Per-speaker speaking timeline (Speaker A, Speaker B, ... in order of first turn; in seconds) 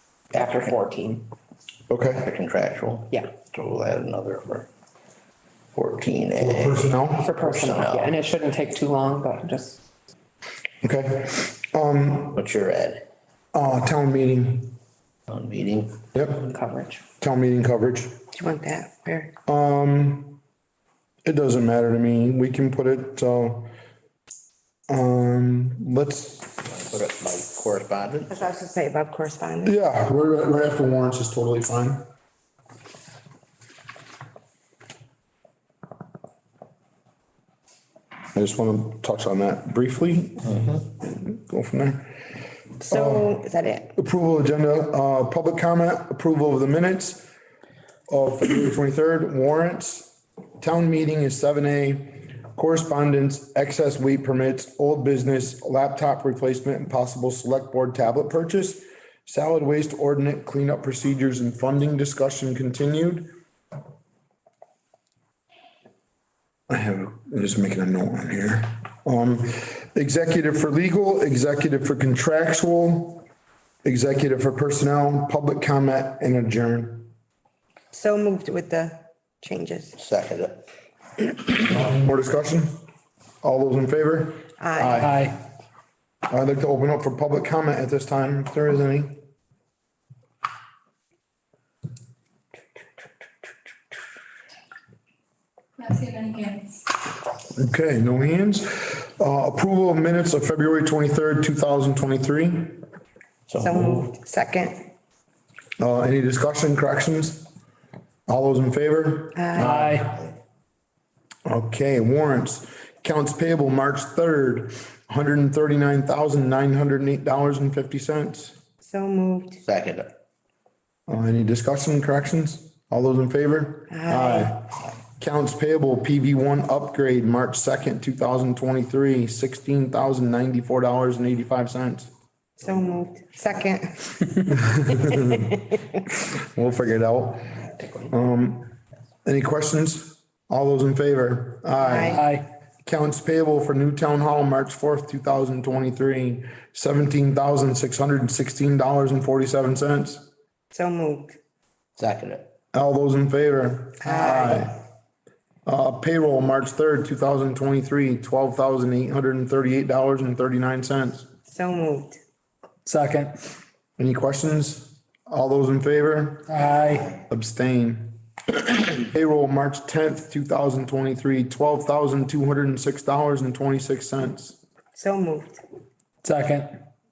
Speaker A: 0.3-1.3, 7.2-9.8, 16.2-17.0
Speaker B: 1.9-2.3, 5.8-7.3, 10.8-12.4, 13.5-14.8, 16.1-16.4, 17.2-18.2, 19.5-20.4, 21.2-23.7, 24.9-26.6, 29.6-32.0, 38.3-42.1, 42.9-43.4, 44.0-47.3, 48.1-63.3, 66.7-73.2, 73.8-77.1, 81.6-82.8, 83.4-85.3, 86.3-89.2, 97.6-102.8, 105.8-107.5, 108.3-109.8, 111.5-118.6, 121.1-132.1, 134.5-135.6, 136.1-138.7, 139.2-142.3, 142.8-150.3, 152.7-154.8, 155.7-161.3, 164.0-166.6, 167.2-174.6
Speaker C: 2.2-4.7, 5.9-8.2, 12.3-13.0, 15.3-16.0, 26.7-28.3, 80.0-80.6, 103.5-104.2, 110.0-110.3, 119.6-120.1, 152.0-152.5
Speaker D: 18.3-19.3, 28.3-29.8, 42.9-43.9, 77.9-79.9, 84.6-85.2, 103.6-104.9, 109.3-109.9, 118.8-119.6, 123.9-124.5, 132.6-134.3, 141.8-142.3, 150.7-151.3, 154.0-154.7, 161.5-162.2, 174.9-175.6
Speaker E: 84.9-85.4, 109.6-110.2, 142.0-142.4, 162.8-163.3, 166.5-167.1, 176.2-176.7